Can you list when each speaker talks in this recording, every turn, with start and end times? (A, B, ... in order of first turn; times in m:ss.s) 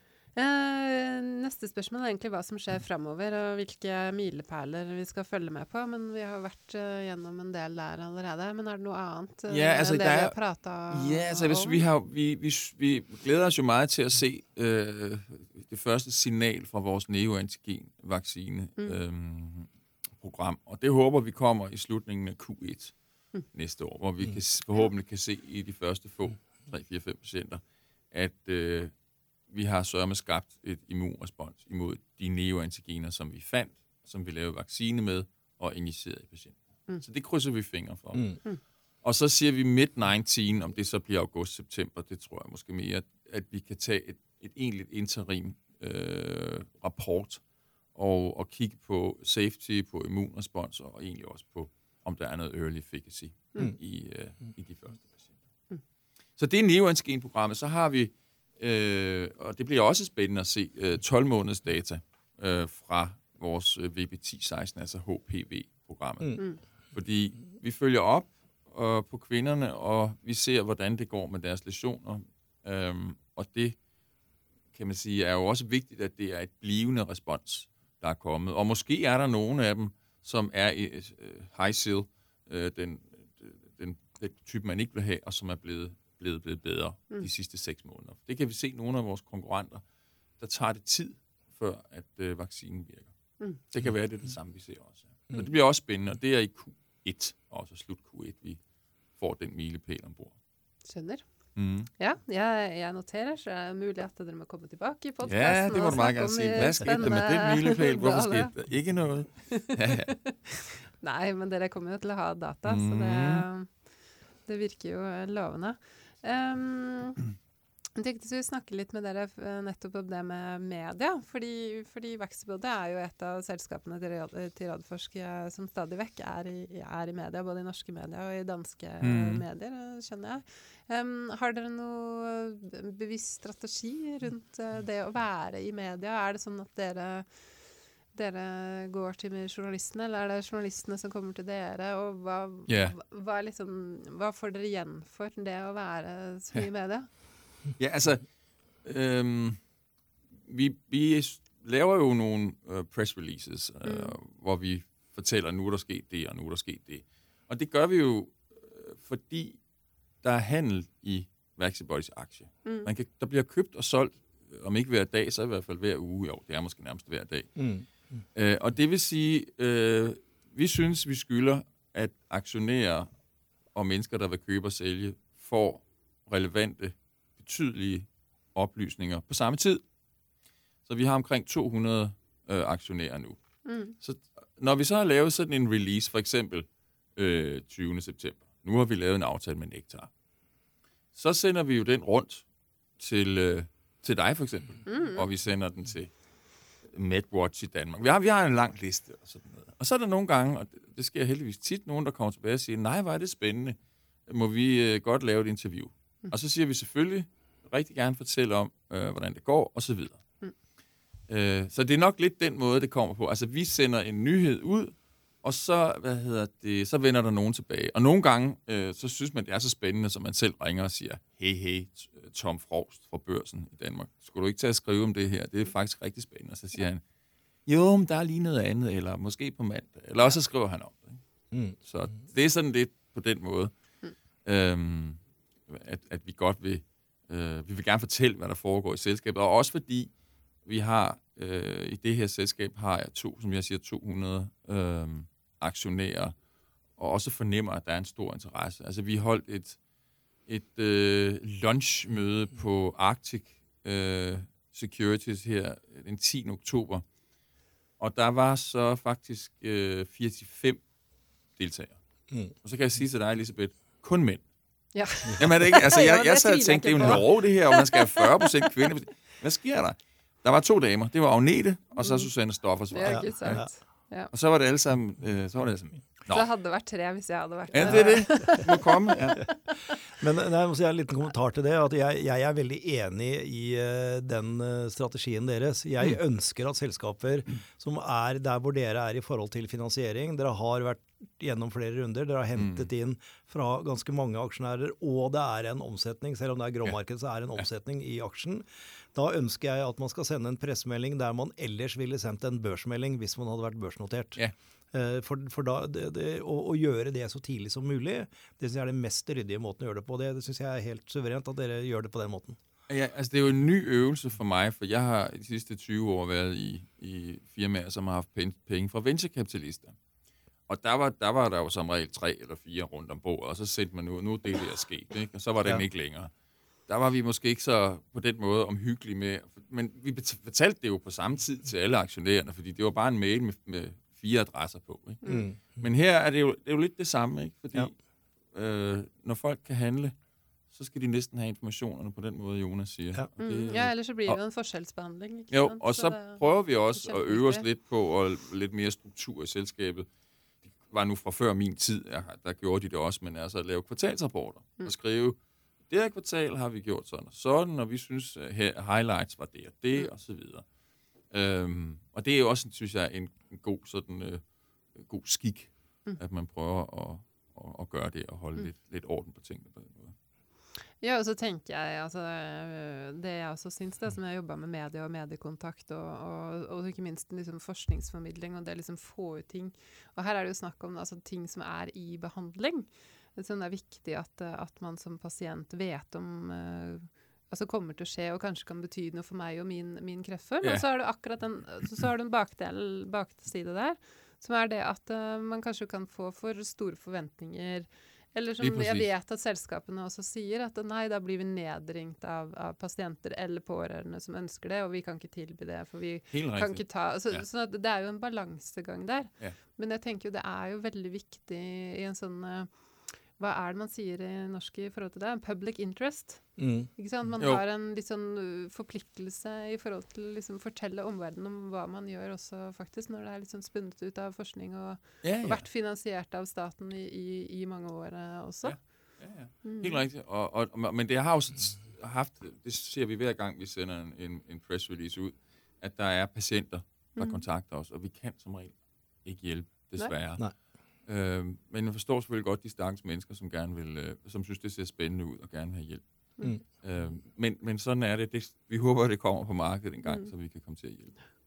0:00.4-0:11.9 A
0:09.5-0:10.4 B
0:10.9-0:22.9 B
0:23.5-0:28.9 B
0:29.5-0:38.4 B
0:39.0-0:47.4 B
0:48.0-0:55.3 B
0:56.4-1:13.8 B
1:14.7-1:29.8 B
1:30.4-1:33.1 B
1:33.7-1:38.6 B
1:39.2-1:40.4 B
1:40.9-1:41.2 A
1:41.6-1:41.9 B
1:42.0-1:48.5 A
1:45.3-1:50.1 B
1:49.5-1:53.8 A
1:52.7-1:53.5 B
1:54.4-1:57.2 A
1:58.0-2:17.5 A
2:09.0-2:09.4 B
2:18.1-2:27.1 A
2:22.7-2:23.0 B
2:27.8-2:28.2 B
2:28.8-2:29.6 B
2:30.5-2:39.6 B
2:33.8-2:34.1 A
2:40.2-2:47.6 B
2:47.6-2:47.9 C
2:48.4-2:53.1 B
2:53.7-2:59.8 B
3:00.9-3:03.4 B
3:03.6-3:03.9 A
3:04.0-3:10.1 B
3:11.1-3:12.4 B
3:13.0-3:16.1 B
3:14.9-3:15.2 A
3:16.8-3:30.2 B
3:31.3-3:47.0 B
3:47.7-3:51.2 B
3:51.5-3:51.8 C
3:51.8-3:53.7 B
3:54.4-4:00.1 B
4:00.7-4:06.4 B
4:07.0-4:09.8 B
4:10.5-4:17.0 B
4:18.0-4:20.8 B
4:21.6-4:22.0 B
4:22.6-4:24.4 B
4:24.9-4:28.5 A
4:25.4-4:33.7 B
4:32.0-4:32.3 A
4:32.9-4:34.3 A
4:33.0-4:33.7 C
4:34.3-4:36.5 B
4:36.3-4:39.9 A
4:37.7-4:39.5 B
4:37.8-4:38.6 C
4:40.2-5:04.4 C
4:52.6-4:52.9 B
5:04.9-5:12.6 C
5:12.9-5:20.0 B
5:20.7-5:26.3 B
5:26.9-5:38.0 B
5:35.3-5:35.8 C
5:38.5-5:40.1 B
5:40.7-5:44.4 B
5:43.4-5:46.4 A
5:45.5-5:50.1 B
5:46.9-5:47.6 A
5:50.8-5:55.4 B
5:55.9-6:00.6 B
6:01.3-6:04.4 B
6:05.0-6:10.2 B
6:11.0-7:09.0 A
6:38.6-6:39.1 B
6:46.3-6:47.4 B
6:56.6-6:56.9 C
7:05.2-7:05.6 B
7:08.6-7:20.5 B
7:09.6-7:10.0 A
7:21.1-7:26.0 B
7:26.6-7:31.2 B